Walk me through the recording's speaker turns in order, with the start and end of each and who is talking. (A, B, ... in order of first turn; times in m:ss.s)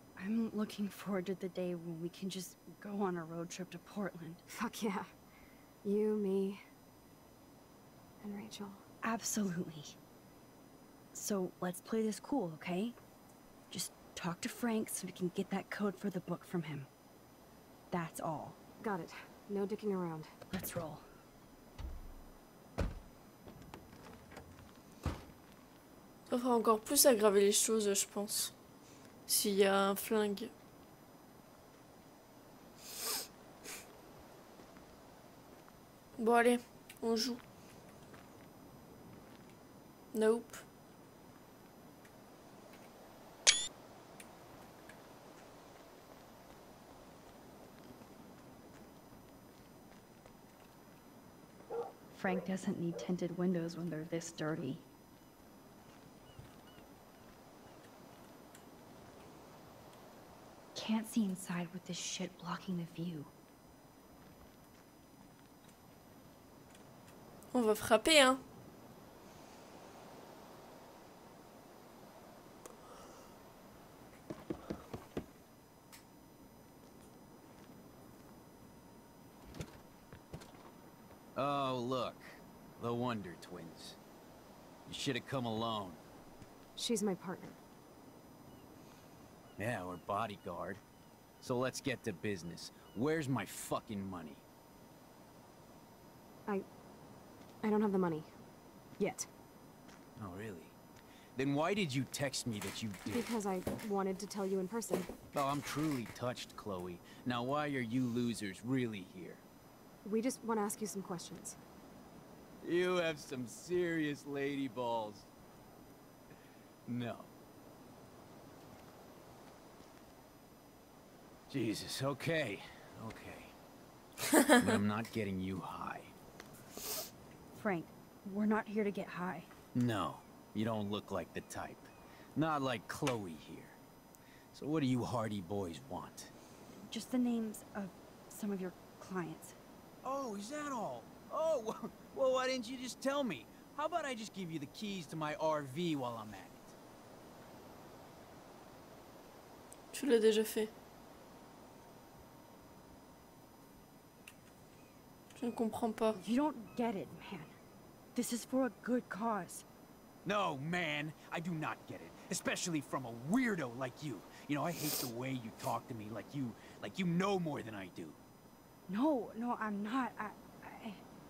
0:00.2-0:04.4 A
0:04.5-0:05.0 B
0:05.8-0:06.6 B
0:08.2-0:08.8 B
0:09.0-0:10.0 A
0:11.1-0:12.9 A
0:13.7-0:16.9 A
0:17.9-0:18.6 A
0:18.8-0:20.3 B
0:20.5-0:21.0 A
0:26.3-0:28.5 C
0:29.3-0:30.5 C
0:36.2-0:37.4 C
0:40.1-0:40.6 C
0:52.1-0:54.8 A
1:00.7-1:03.3 A
1:07.5-1:08.4 C
1:21.4-1:24.0 D
1:24.9-1:26.0 D
1:26.8-1:27.6 B
1:29.6-1:30.8 D
1:31.4-1:34.4 D
1:37.6-1:38.3 B
1:39.0-1:39.3 B
1:40.2-1:40.8 D
1:41.4-1:43.3 D
1:43.1-1:45.1 B
1:45.3-1:49.4 D
1:50.0-1:51.6 B
1:52.6-1:55.3 D
1:56.9-1:57.3 D
2:01.5-2:03.5 D
2:04.6-2:06.1 D
2:07.5-2:09.5 A
2:09.7-2:13.8 D
2:14.5-2:16.3 D
2:16.7-2:19.6 A
2:20.0-2:26.8 D
2:29.9-2:30.7 C
2:35.4-2:36.2 C
2:36.1-2:37.5 A
2:38.1-2:39.6 A
2:40.2-2:48.2 D
2:48.9-2:51.0 A